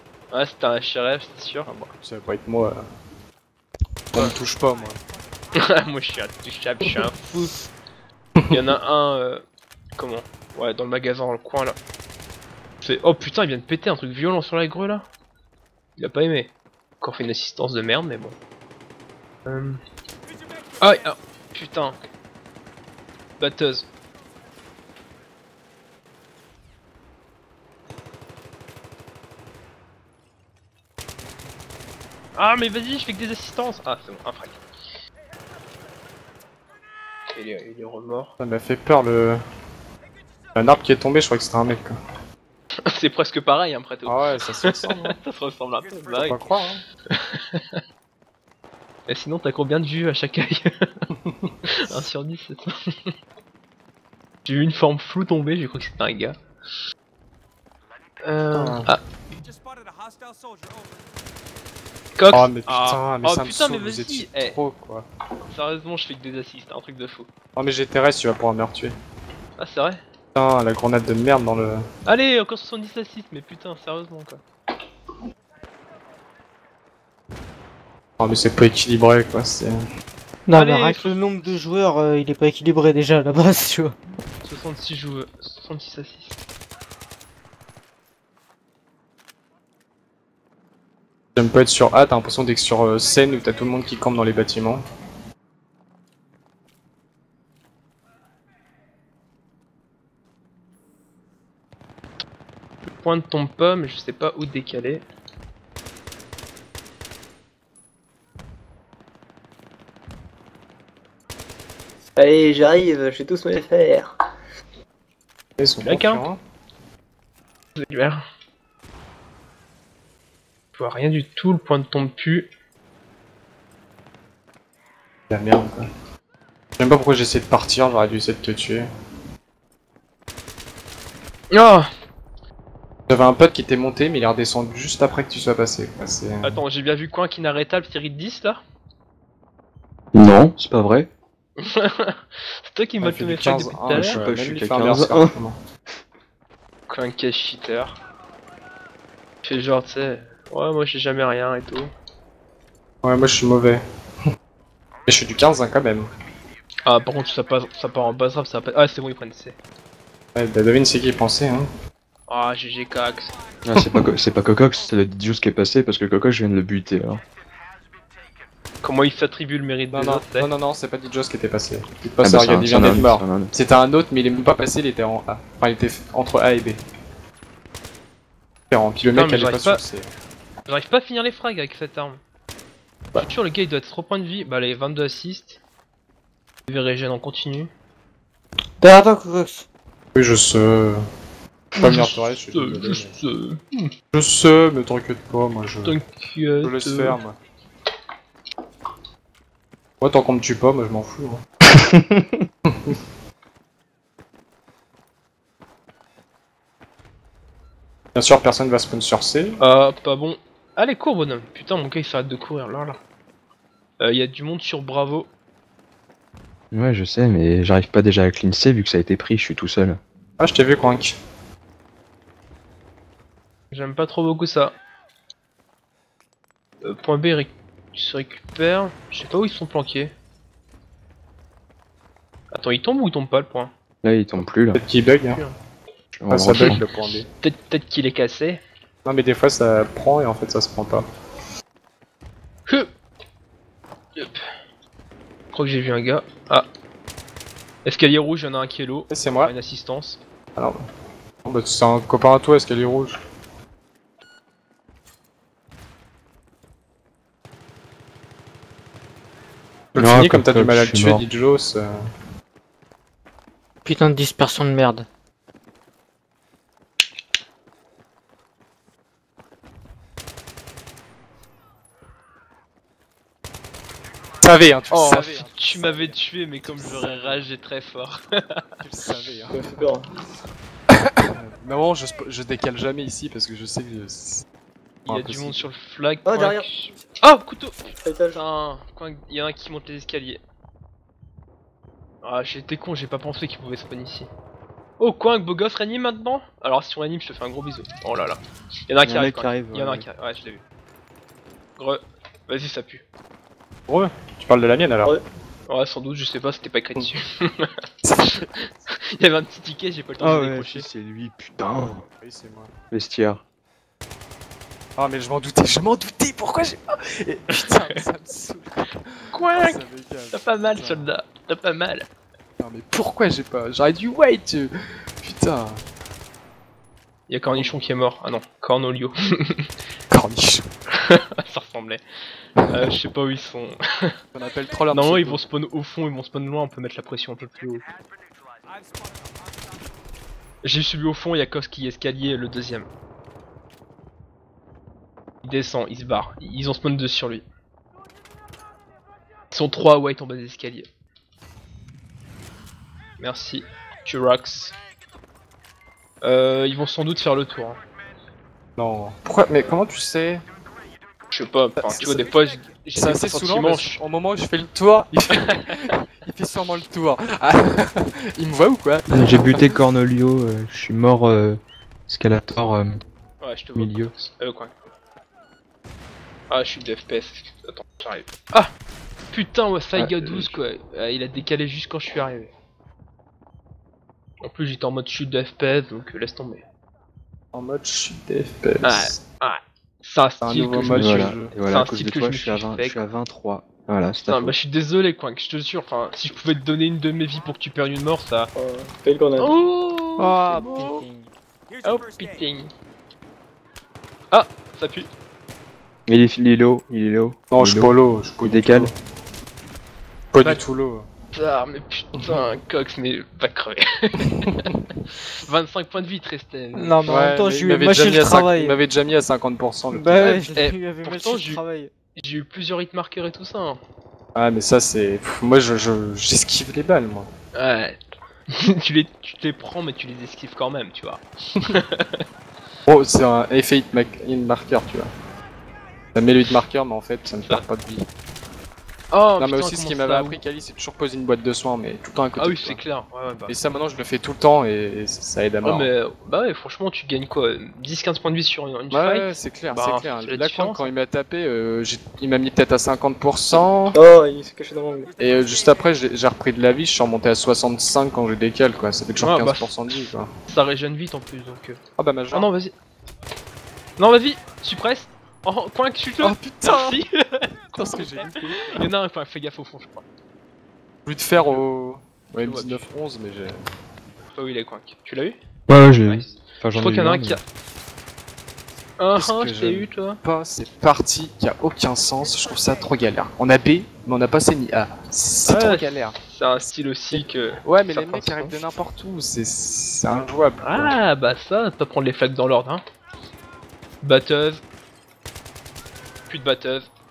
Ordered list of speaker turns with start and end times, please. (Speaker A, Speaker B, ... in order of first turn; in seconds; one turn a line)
Speaker A: 0.3-1.7
Speaker B: 1.6-2.8
Speaker B: 4.1-5.0
Speaker A: 5.5-7.5
Speaker A: 8.5-9.4
Speaker A: 10.0-11.8
Speaker A: 12.8-15.1
Speaker A: 16.0-18.4
Speaker A: 19.4-19.8
Speaker A: 20.8-22.0
Speaker A: 23.4-23.9
Speaker A: 32.4-34.6
Speaker A: 37.4-38.3
Speaker B: 38.4-39.4
Speaker B: 40.6-42.0
Speaker A: 42.9-46.5
Speaker B: 44.0-45.2
Speaker B: 46.1-46.8
Speaker A: 47.1-47.8
Speaker A: 49.1-50.7
Speaker B: 51.2-51.6
Speaker A: 51.7-53.1
Speaker A: 54.5-56.4
Speaker A: 58.2-59.0
Speaker B: 58.5-58.9
Speaker A: 62.2-64.6
Speaker B: 62.3-65.1
Speaker A: 65.5-67.3
Speaker B: 67.6-68.9
Speaker A: 69.6-70.0
Speaker B: 70.3-71.8
Speaker A: 72.0-74.4
Speaker B: 78.2-79.8
Speaker C: 80.5-84.0
Speaker A: 80.5-81.6
Speaker A: 84.4-86.4
Speaker B: 91.4-94.8
Speaker A: 102.9-105.0
Speaker D: 112.2-114.1
Speaker B: 115.6-116.4
Speaker A: 115.8-116.3
Speaker A: 117.8-118.2
Speaker A: 120.7-122.5
Speaker B: 125.3-125.9
Speaker B: 126.8-128.9
Speaker A: 131.5-131.9
Speaker B: 133.1-136.6
Speaker A: 136.4-138.6
Speaker E: 140.1-141.1
Speaker A: 141.6-144.2
Speaker B: 143.0-145.6
Speaker E: 143.9-145.3
Speaker A: 146.9-148.0
Speaker A: 149.4-151.9
Speaker B: 153.0-153.8
Speaker B: 155.1-156.1
Speaker A: 156.9-159.6
Speaker B: 160.3-161.7
Speaker A: 162.3-163.3
Speaker E: 163.7-167.2
Speaker A: 168.8-170.5
Speaker B: 169.9-176.8
Speaker E: 172.2-173.5
Speaker B: 178.7-180.1
Speaker A: 179.1-179.8
Speaker A: 180.7-182.2
Speaker A: 183.2-185.6
Speaker A: 186.7-187.7
Speaker C: 188.8-189.7
Speaker B: 190.2-191.0
Speaker A: 191.8-193.9
Speaker B: 191.8-193.1
Speaker B: 194.1-196.0
Speaker A: 195.8-197.2
Speaker B: 196.6-197.4
Speaker B: 200.0-201.4
Speaker E: 201.9-202.3
Speaker B: 202.7-202.9
Speaker B: 208.2-209.6
Speaker A: 209.6-213.0
Speaker A: 214.0-215.3
Speaker E: 216.7-220.0
Speaker B: 220.4-221.2
Speaker A: 223.7-224.7
Speaker A: 226.8-230.1
Speaker A: 232.5-233.7
Speaker E: 234.0-234.8
Speaker B: 234.4-235.4
Speaker A: 235.2-235.5
Speaker E: 236.2-236.8
Speaker B: 236.3-237.3
Speaker A: 237.4-238.6
Speaker B: 239.1-241.1
Speaker A: 245.5-246.7
Speaker A: 247.8-250.2
Speaker B: 249.1-249.5
Speaker B: 251.4-253.2
Speaker B: 259.9-261.9
Speaker E: 260.0-261.2
Speaker C: 263.9-265.1
Speaker B: 274.4-277.5
Speaker A: 274.9-278.6
Speaker B: 278.8-279.8
Speaker D: 279.5-280.1
Speaker B: 281.2-284.4
Speaker A: 285.1-290.4
Speaker B: 285.1-285.6
Speaker D: 286.3-286.6
Speaker D: 288.0-288.4
Speaker A: 292.2-294.3
Speaker A: 295.0-300.6
Speaker E: 299.0-300.1
Speaker A: 301.8-303.0
Speaker B: 303.9-305.1
Speaker A: 305.7-307.7
Speaker B: 308.0-308.9
Speaker A: 309.2-310.9
Speaker E: 310.2-312.0
Speaker B: 312.1-312.7
Speaker E: 312.9-313.4
Speaker B: 315.0-321.1
Speaker A: 319.3-322.1
Speaker B: 322.6-325.8
Speaker A: 327.3-329.7
Speaker B: 330.1-330.7
Speaker A: 331.0-332.0
Speaker A: 332.7-333.8
Speaker B: 334.3-335.4
Speaker A: 334.9-337.9
Speaker A: 340.6-342.9
Speaker A: 345.4-347.4
Speaker A: 349.5-350.9
Speaker A: 353.2-354.8
Speaker A: 356.2-357.8
Speaker B: 358.8-360.4
Speaker A: 361.3-364.0
Speaker B: 361.8-362.3
Speaker B: 362.9-369.6
Speaker A: 365.4-365.7
Speaker E: 369.1-373.0
Speaker A: 373.4-374.7
Speaker E: 373.8-374.1
Speaker A: 376.5-378.7
Speaker A: 379.3-382.5
Speaker B: 380.3-380.6
Speaker A: 384.4-386.6
Speaker B: 387.5-389.2
Speaker A: 388.8-393.0
Speaker B: 390.4-391.5
Speaker E: 390.9-394.5
Speaker A: 394.2-398.5
Speaker D: 398.6-399.5
Speaker A: 399.4-401.0
Speaker C: 400.2-401.3
Speaker A: 401.8-402.7
Speaker A: 404.3-405.1
Speaker E: 406.1-407.9
Speaker B: 407.5-408.9
Speaker E: 408.4-408.9
Speaker B: 410.3-411.1
Speaker A: 411.3-417.1
Speaker C: 416.7-418.8
Speaker B: 417.1-420.4
Speaker C: 419.9-421.9
Speaker A: 420.2-421.6
Speaker A: 422.2-423.8
Speaker B: 424.4-427.3
Speaker A: 427.6-428.0
Speaker A: 428.5-432.2
Speaker B: 432.9-435.1
Speaker B: 436.1-438.1
Speaker A: 439.1-440.4
Speaker B: 439.4-442.8
Speaker A: 442.4-443.6
Speaker B: 443.5-445.9
Speaker A: 445.6-450.9
Speaker B: 448.9-454.0
Speaker D: 453.9-455.1
Speaker B: 455.2-460.3
Speaker A: 459.2-461.8
Speaker B: 462.0-462.5
Speaker A: 462.3-462.7
Speaker A: 464.0-470.0
Speaker B: 466.2-467.0
Speaker B: 467.8-468.8
Speaker B: 471.1-473.6
Speaker A: 471.4-471.6
Speaker A: 472.4-472.8
Speaker A: 474.3-475.4
Speaker E: 475.7-477.4
Speaker A: 476.1-477.4
Speaker A: 479.0-480.2
Speaker B: 479.2-486.2
Speaker A: 485.5-488.6
Speaker B: 487.1-491.0
Speaker A: 490.6-492.8
Speaker A: 494.0-494.6
Speaker A: 496.3-496.9